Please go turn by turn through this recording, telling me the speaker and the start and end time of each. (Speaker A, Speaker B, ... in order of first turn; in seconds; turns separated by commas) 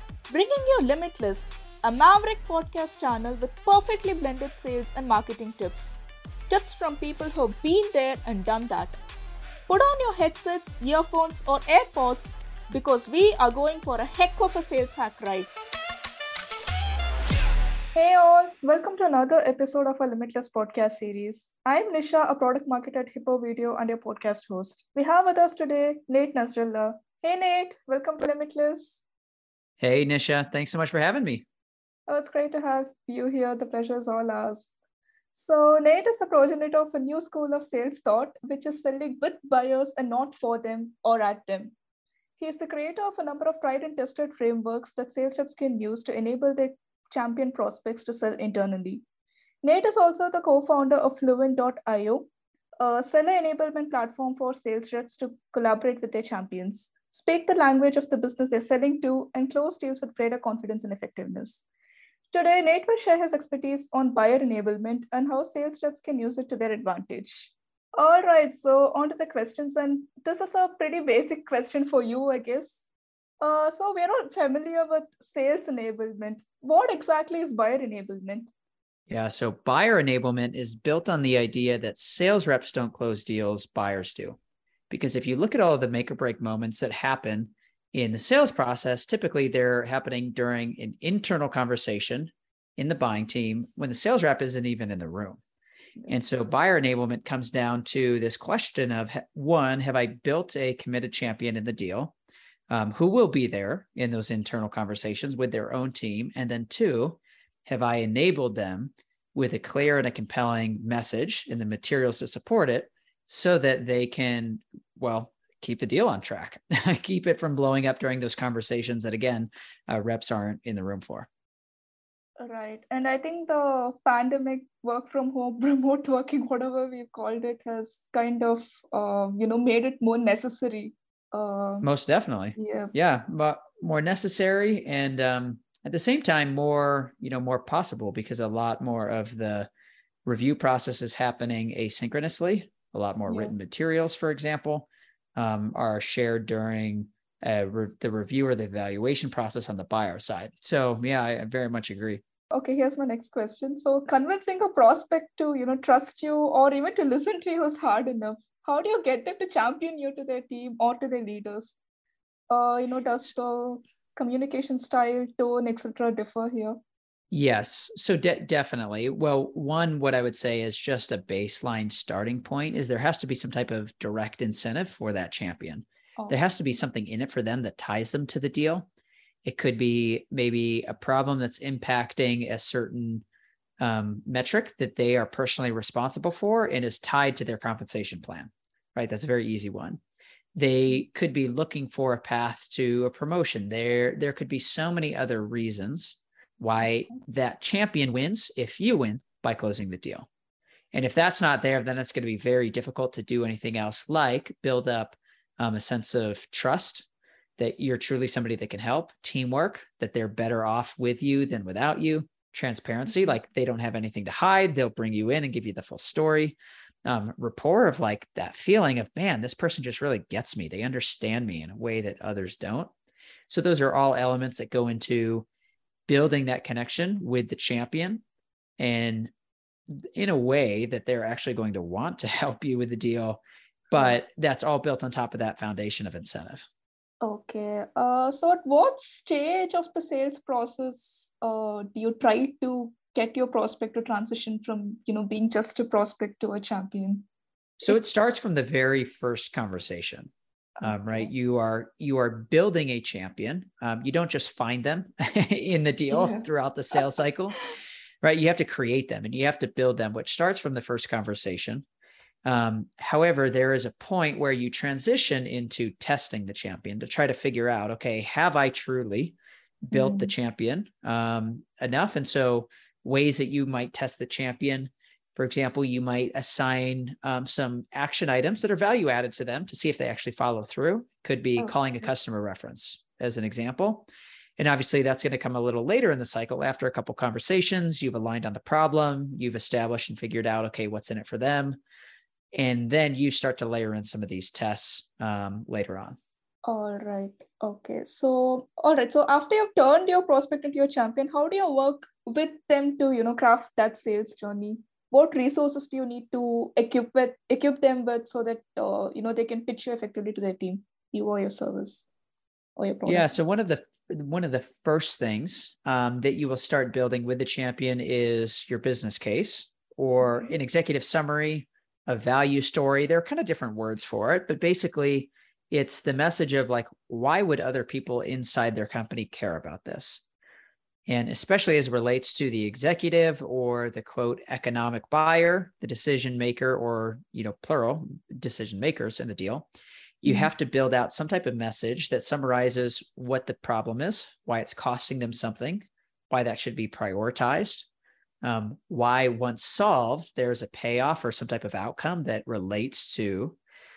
Speaker A: 0.3-5.9, Speaker A: 6.5-9.0, Speaker A: 9.7-15.5, Speaker A: 17.9-29.0, Speaker B: 29.8-31.4, Speaker A: 32.1-34.7, Speaker A: 35.3-41.7, Speaker A: 42.4-49.0, Speaker A: 49.6-52.3, Speaker A: 52.8-61.6, Speaker A: 62.3-72.8, Speaker A: 73.4-78.5, Speaker B: 79.1-84.4, Speaker B: 84.9-95.4, Speaker B: 96.1-102.1, Speaker B: 102.7-121.3, Speaker A: 122.4-131.9, Speaker B: 131.8-139.7, Speaker A: 132.6-132.9, Speaker B: 140.2-152.2, Speaker A: 143.3-143.5, Speaker A: 152.5-161.8, Speaker A: 162.5-166.8, Speaker B: 167.3-178.9, Speaker A: 176.2-176.5, Speaker B: 179.4-183.2, Speaker B: 183.8-190.0, Speaker B: 190.5-200.3, Speaker B: 200.9-222.9, Speaker A: 213.1-213.3, Speaker B: 223.5-225.5, Speaker B: 226.1-228.2, Speaker B: 228.8-229.3, Speaker B: 229.9-233.4, Speaker A: 233.9-234.2, Speaker B: 233.9-236.7, Speaker A: 237.2-247.3, Speaker B: 247.8-257.6, Speaker A: 250.8-251.3, Speaker A: 256.1-257.0, Speaker B: 258.2-261.9, Speaker B: 262.4-291.8, Speaker A: 269.9-270.3, Speaker B: 292.5-296.2, Speaker A: 296.6-312.0, Speaker A: 312.8-313.3, Speaker B: 313.0-330.2, Speaker A: 320.2-320.5, Speaker B: 331.1-339.7, Speaker B: 340.2-347.9, Speaker A: 340.2-340.5, Speaker B: 348.4-353.6